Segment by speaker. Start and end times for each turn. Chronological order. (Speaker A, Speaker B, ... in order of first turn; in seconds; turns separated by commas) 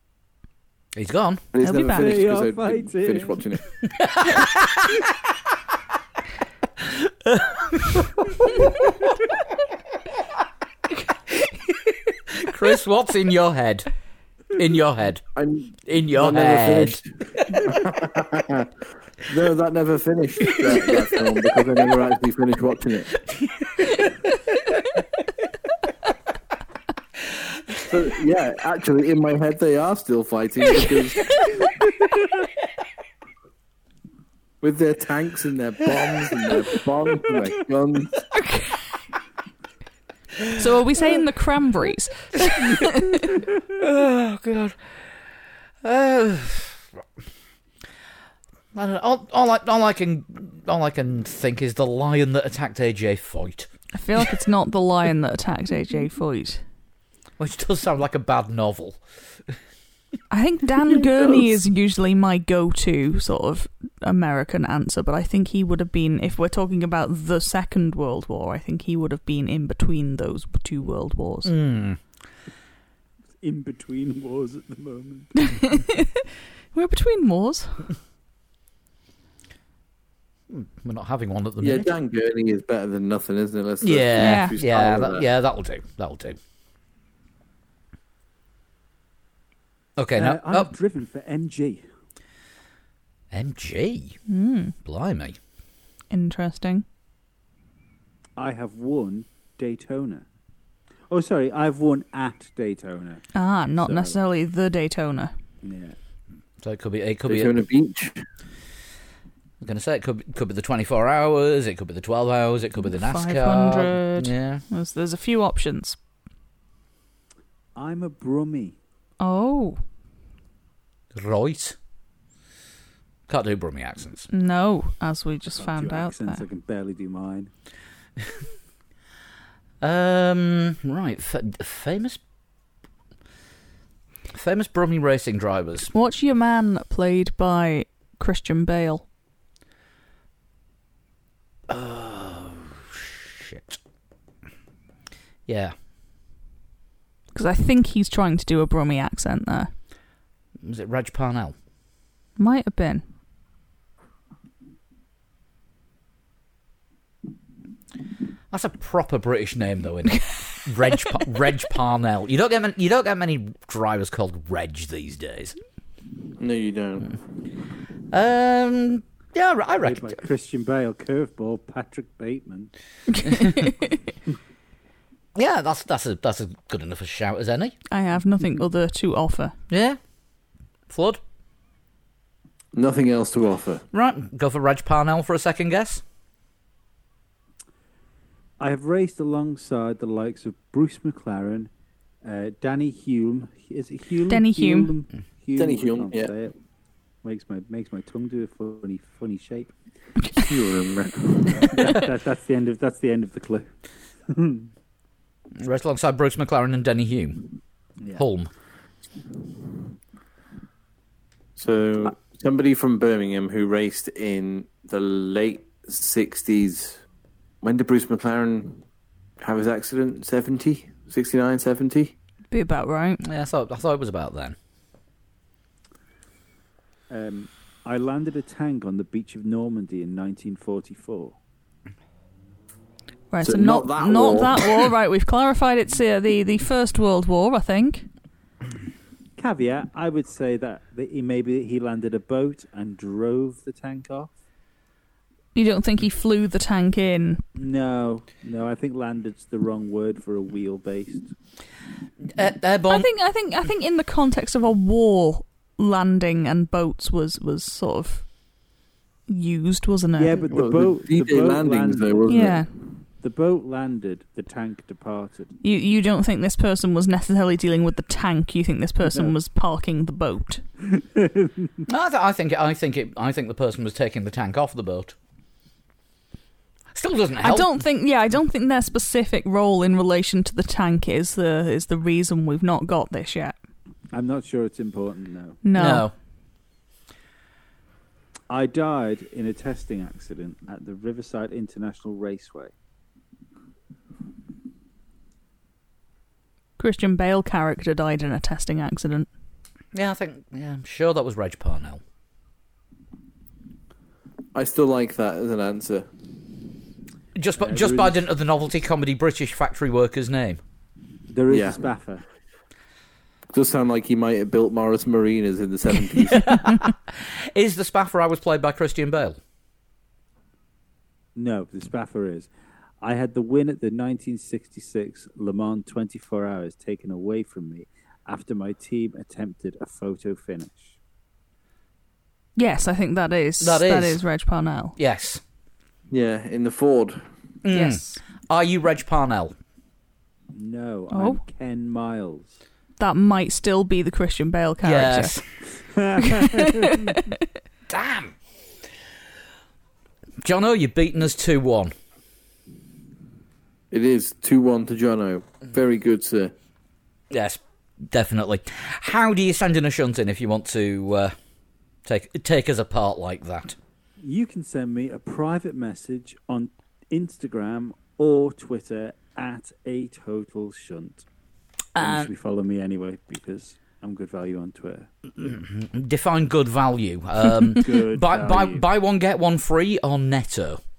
Speaker A: 0.9-1.4, Speaker B: 1.5-3.8, Speaker C: 1.6-2.2, Speaker D: 1.8-3.4, Speaker A: 3.9-5.0, Speaker A: 6.9-8.6, Speaker A: 12.3-13.9, Speaker A: 14.5-15.2, Speaker B: 15.3-23.1, Speaker A: 15.8-17.7, Speaker A: 23.4-24.0, Speaker B: 27.8-31.5, Speaker B: 34.6-38.3, Speaker C: 38.4-38.8, Speaker C: 40.5-43.4, Speaker A: 42.5-42.8, Speaker A: 43.6-44.8, Speaker A: 45.8-46.8, Speaker A: 48.7-53.7, Speaker C: 53.9-56.6, Speaker A: 57.4-59.0, Speaker C: 60.3-71.5, Speaker A: 71.4-72.0, Speaker D: 73.4-75.5, Speaker C: 75.7-76.0, Speaker C: 76.7-78.0, Speaker A: 80.5-81.9, Speaker B: 81.6-85.2, Speaker A: 83.8-86.4, Speaker C: 84.2-84.5, Speaker A: 90.0-90.7, Speaker D: 90.1-91.8, Speaker A: 93.3-94.2, Speaker C: 94.3-94.7, Speaker A: 94.8-95.4, Speaker C: 96.1-96.8, Speaker D: 98.4-100.3, Speaker D: 101.1-103.2, Speaker C: 103.3-105.3, Speaker D: 103.8-104.2, Speaker D: 105.6-106.0, Speaker A: 106.6-107.6, Speaker B: 107.2-108.2, Speaker A: 109.6-114.6, Speaker C: 112.8-116.0, Speaker D: 117.8-118.8, Speaker C: 119.2-119.8, Speaker A: 121.1-121.8, Speaker A: 123.3-124.3, Speaker C: 124.3-126.4, Speaker D: 125.5-127.5, Speaker A: 129.8-132.2, Speaker A: 134.3-135.9, Speaker C: 135.9-139.1, Speaker A: 141.7-143.8, Speaker A: 145.5-145.7, Speaker C: 147.3-149.7, Speaker A: 150.6-151.5, Speaker C: 152.4-153.0, Speaker A: 158.5-165.6, Speaker B: 166.4-167.2, Speaker A: 168.1-170.1, Speaker D: 169.8-172.7, Speaker C: 173.2-173.8, Speaker A: 175.3-177.7, Speaker C: 177.9-179.5, Speaker A: 179.7-180.1, Speaker A: 180.9-181.2, Speaker B: 182.7-183.8, Speaker A: 183.9-186.0, Speaker D: 188.6-191.7, Speaker D: 192.2-196.6, Speaker C: 194.3-194.9, Speaker B: 195.6-196.3, Speaker D: 197.2-199.7, Speaker B: 200.4-201.7, Speaker D: 201.6-203.8, Speaker D: 204.3-204.7, Speaker A: 205.6-207.5, Speaker D: 208.0-208.2, Speaker A: 208.2-208.5, Speaker B: 211.6-217.0, Speaker B: 217.6-218.8, Speaker B: 219.4-222.1, Speaker C: 222.5-223.2, Speaker A: 223.2-224.6, Speaker D: 227.1-231.4, Speaker C: 233.3-238.1, Speaker B: 233.4-234.8, Speaker D: 239.4-244.3, Speaker C: 245.5-247.4, Speaker D: 247.6-251.3, Speaker A: 252.3-253.1, Speaker C: 252.9-258.4, Speaker C: 259.3-260.4, Speaker D: 260.1-265.6, Speaker B: 260.5-262.8, Speaker C: 262.3-262.7, Speaker C: 265.6-270.6, Speaker D: 270.9-271.7, Speaker A: 271.9-275.1, Speaker A: 276.9-277.7, Speaker C: 277.4-283.6, Speaker D: 284.1-285.6, Speaker C: 285.6-286.1, Speaker A: 285.7-286.1, Speaker D: 288.5-292.7, Speaker C: 296.8-299.3, Speaker A: 299.9-302.0, Speaker B: 304.5-306.1, Speaker A: 307.4-310.6, Speaker D: 307.6-308.2, Speaker D: 311.3-312.2, Speaker B: 311.5-311.8, Speaker B: 313.5-316.6, Speaker A: 316.3-319.4, Speaker D: 321.4-322.5, Speaker D: 323.0-330.9, Speaker C: 332.6-334.9, Speaker A: 333.6-334.2, Speaker A: 334.9-335.4, Speaker B: 336.1-337.3, Speaker A: 337.6-339.5, Speaker C: 337.7-338.2, Speaker D: 340.5-342.6, Speaker C: 341.1-341.4, Speaker C: 343.0-345.4, Speaker A: 344.8-345.6, Speaker D: 345.7-346.8, Speaker C: 346.4-347.3, Speaker A: 347.9-348.4, Speaker A: 350.4-351.9, Speaker B: 353.9-356.5, Speaker A: 357.3-361.3, Speaker A: 362.0-363.8, Speaker D: 364.2-371.2, Speaker A: 371.9-372.3, Speaker D: 371.9-375.1, Speaker A: 375.4-380.8, Speaker D: 377.8-378.8